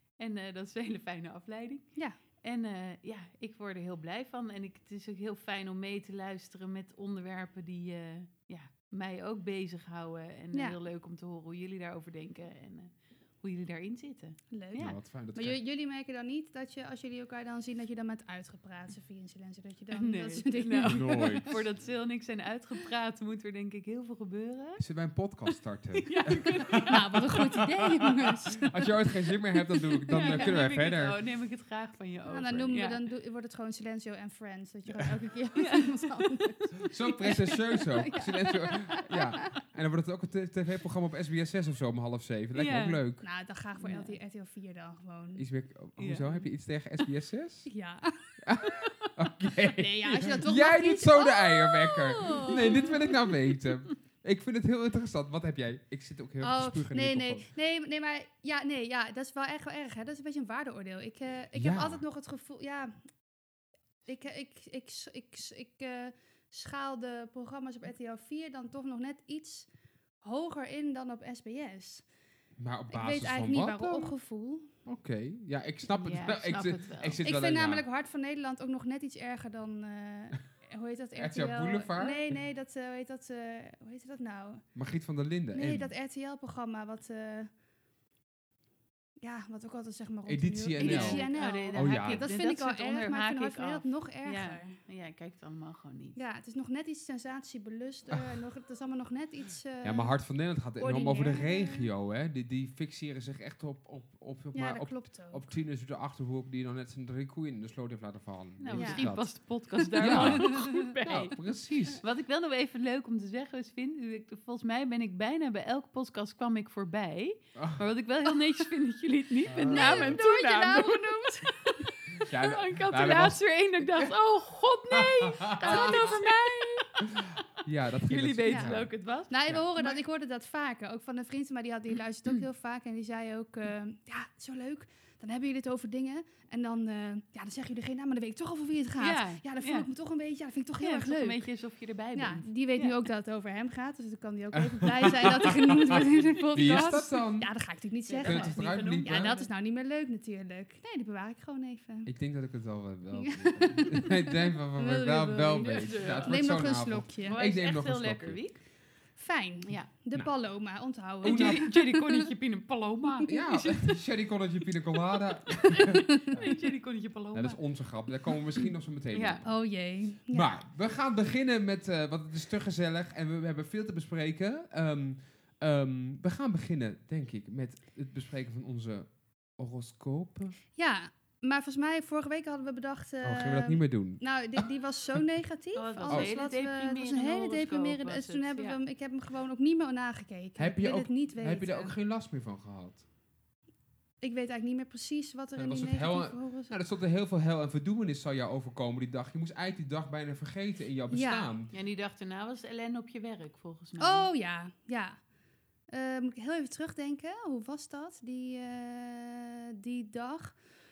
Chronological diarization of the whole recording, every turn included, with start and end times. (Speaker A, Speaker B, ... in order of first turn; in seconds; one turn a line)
Speaker A: 0.2-15.0
Speaker B: 14.5-21.5
Speaker C: 14.8-15.6
Speaker A: 19.9-24.8
Speaker C: 20.9-21.6
Speaker C: 24.8-31.2
Speaker A: 25.5-27.0
Speaker B: 26.8-28.7
Speaker A: 30.1-33.0
Speaker B: 30.1-30.6
Speaker B: 32.3-39.5
Speaker A: 35.6-36.7
Speaker C: 36.9-43.2
Speaker A: 42.5-43.0
Speaker B: 43.2-45.4
Speaker A: 43.8-44.2
Speaker C: 45.4-47.7
Speaker A: 46.0-46.5
Speaker B: 47.7-48.3
Speaker C: 48.4-57.5
Speaker B: 49.8-53.0
Speaker A: 52.5-53.3
Speaker B: 56.4-62.9
Speaker C: 61.5-62.0
Speaker B: 64.1-69.7
Speaker B: 70.2-72.1
Speaker C: 72.6-74.1
Speaker B: 72.9-74.7
Speaker C: 74.8-77.8
Speaker A: 75.9-77.2
Speaker B: 77.2-84.7
Speaker C: 81.2-82.2
Speaker C: 84.8-85.9
Speaker B: 85.5-87.5
Speaker B: 89.2-94.8
Speaker C: 90.3-92.3
Speaker A: 90.8-96.2
Speaker B: 96.2-100.1
Speaker C: 98.1-98.4
Speaker C: 99.8-109.4
Speaker B: 100.8-101.9
Speaker B: 104.5-105.4
Speaker A: 108.6-111.4
Speaker B: 108.7-109.0
Speaker B: 110.0-110.8
Speaker C: 110.0-112.0
Speaker A: 112.0-127.3
Speaker C: 117.6-117.9
Speaker C: 119.5-120.2
Speaker B: 119.6-121.9
Speaker C: 122.2-124.1
Speaker C: 124.9-126.2
Speaker B: 125.6-126.9
Speaker C: 127.1-128.9
Speaker A: 128.1-130.0
Speaker B: 128.5-141.5
Speaker A: 139.0-139.9
Speaker A: 140.8-143.0
Speaker B: 142.2-152.1
Speaker C: 144.5-147.6
Speaker A: 148.1-149.5
Speaker C: 148.2-149.3
Speaker C: 152.1-158.4
Speaker B: 153.2-157.4
Speaker A: 155.4-156.6
Speaker A: 157.2-158.6
Speaker B: 159.2-162.3
Speaker A: 161.2-164.0
Speaker C: 161.2-161.7
Speaker C: 163.3-166.6
Speaker A: 165.7-167.6
Speaker C: 167.3-169.6
Speaker A: 168.6-169.4
Speaker B: 169.4-170.6
Speaker C: 170.3-180.6
Speaker B: 180.8-191.9
Speaker C: 183.2-184.7
Speaker A: 185.7-188.8
Speaker C: 186.1-186.3
Speaker C: 190.6-193.0
Speaker B: 194.2-196.8
Speaker C: 195.6-201.7
Speaker B: 201.1-201.5
Speaker A: 201.7-204.3
Speaker B: 204.0-205.2
Speaker B: 205.9-210.6